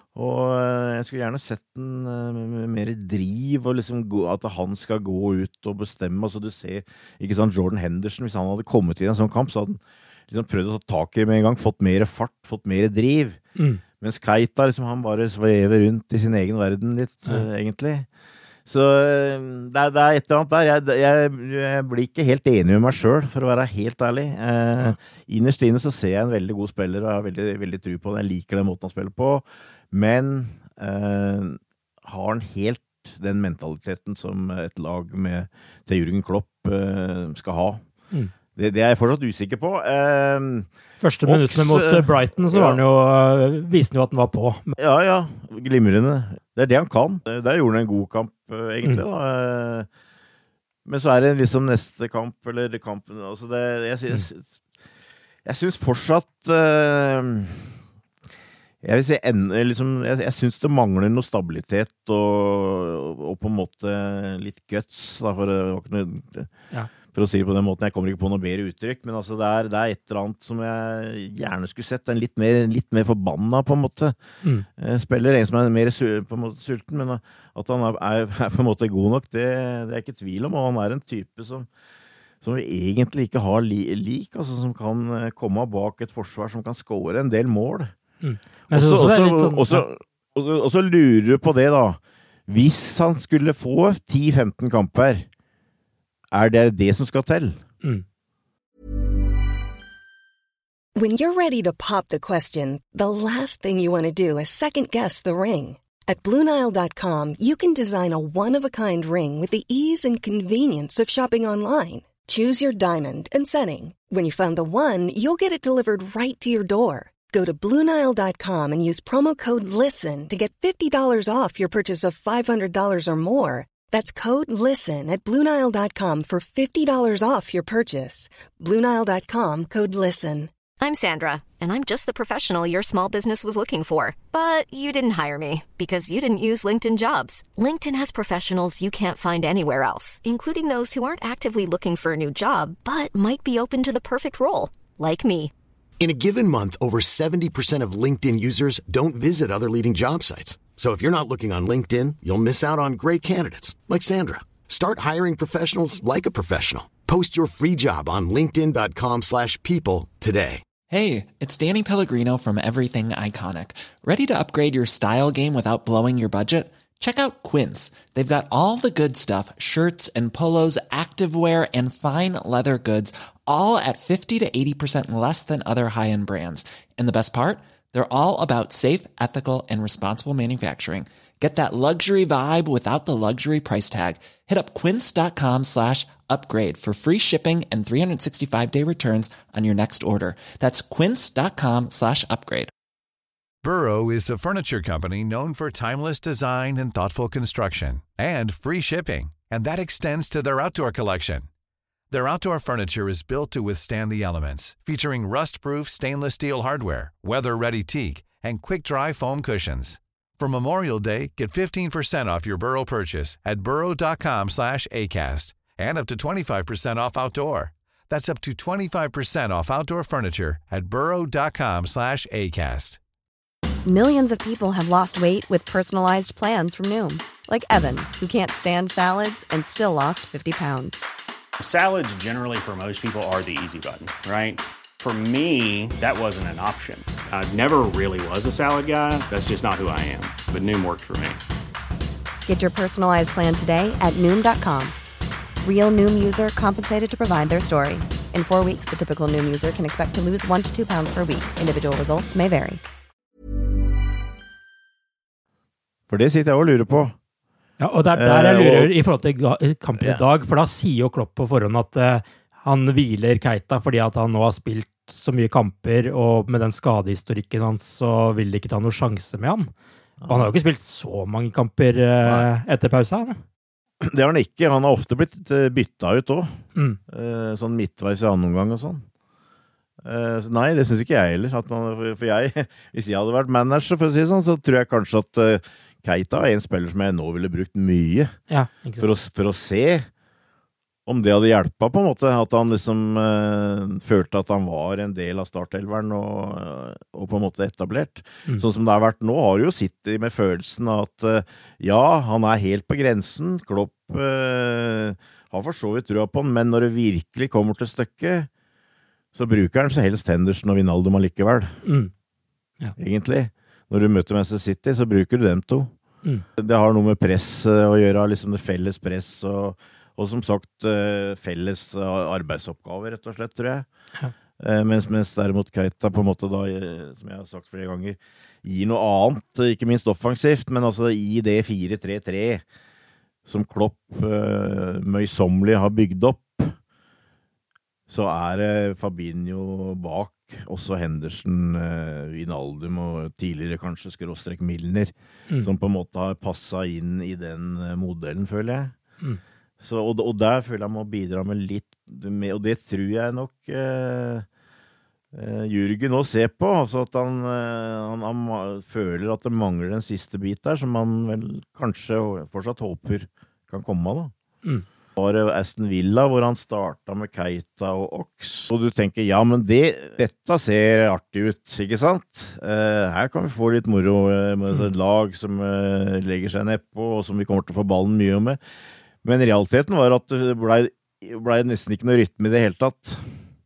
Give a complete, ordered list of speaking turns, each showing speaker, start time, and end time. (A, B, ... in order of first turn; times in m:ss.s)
0:00.1-0:13.4 A
0:13.6-0:13.8 B
0:14.0-0:18.1 A
0:18.7-0:37.8 A
0:38.5-0:40.7 A
0:41.0-0:44.7 B
0:41.2-0:42.8 A
0:44.8-0:49.9 A
0:50.8-0:54.6 A
0:55.4-0:57.7 A
0:58.8-1:06.5 A
1:07.1-1:14.1 A
1:14.8-1:21.7 A
1:22.4-1:27.9 A
1:28.2-1:29.8 B
1:28.7-1:35.2 A
1:36.3-1:37.6 A
1:41.0-2:10.5 C
2:10.8-2:25.5 D
2:26.0-2:40.6 E
2:40.9-3:12.7 F
3:13.6-3:21.5 G
3:22.1-3:43.0 G
3:43.8-3:51.0 H
3:51.6-4:01.4 I
4:02.4-4:04.9 H
4:05.6-4:12.8 H
4:16.1-4:17.1 A
4:17.8-4:29.7 B
4:18.1-4:18.9 A
4:30.2-4:30.5 A
4:30.3-4:33.4 B
4:34.0-4:39.0 A
4:40.0-4:48.3 A
4:48.5-4:49.1 B
4:49.0-4:50.1 A
4:51.0-5:08.5 A
5:09.3-5:11.8 A
5:11.8-5:12.1 B
5:13.0-5:15.9 A
5:16.6-5:23.8 A
5:24.6-5:32.6 A
5:33.4-5:36.7 A
5:38.1-5:48.9 A
5:49.8-5:54.4 A
5:55.3-6:04.3 A
6:05.2-6:18.6 A
6:19.2-6:23.3 A